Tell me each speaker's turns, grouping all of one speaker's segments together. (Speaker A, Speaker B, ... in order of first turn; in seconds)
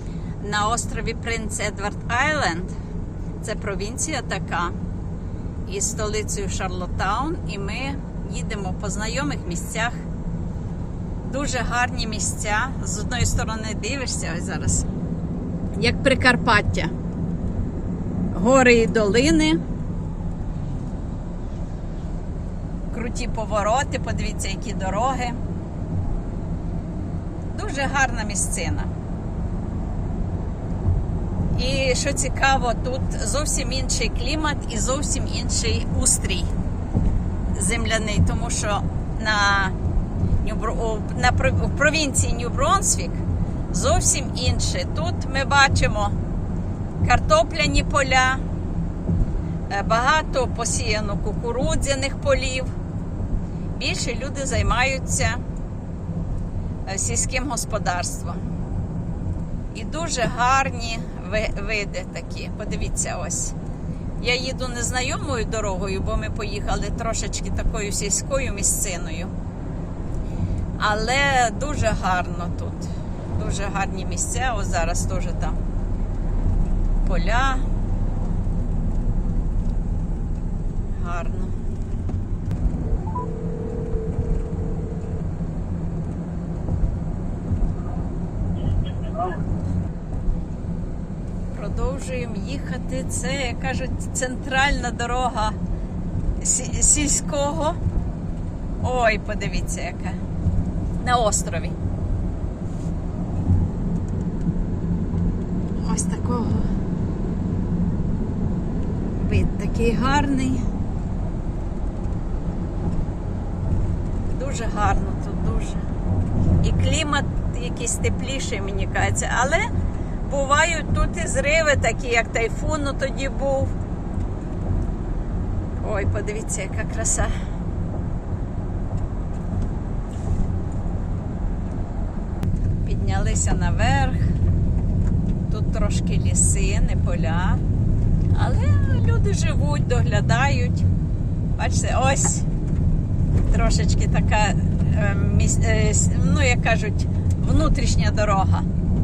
Speaker A: 0.4-2.7, 3.4-4.7, 5.7-10.0, 11.2-14.8, 15.8-16.9, 18.3-19.6, 22.9-25.4, 27.5-28.9, 31.5-36.5, 37.5-39.8, 40.4-46.1, 47.0-48.4, 49.7-52.7, 53.7-55.4, 56.9-58.4, 59.7-63.5, 64.2-69.3, 70.8-75.6, 77.0-77.7, 80.9-81.5, 91.5-95.5, 96.4-97.8, 98.8-100.2, 101.0-101.8, 105.8-106.7, 109.2-110.6, 114.3-115.8, 116.6-119.6, 120.3-123.7, 125.8-127.3, 132.8-134.3, 135.5-137.6, 138.3-140.8, 141.6-142.4, 143.5-148.7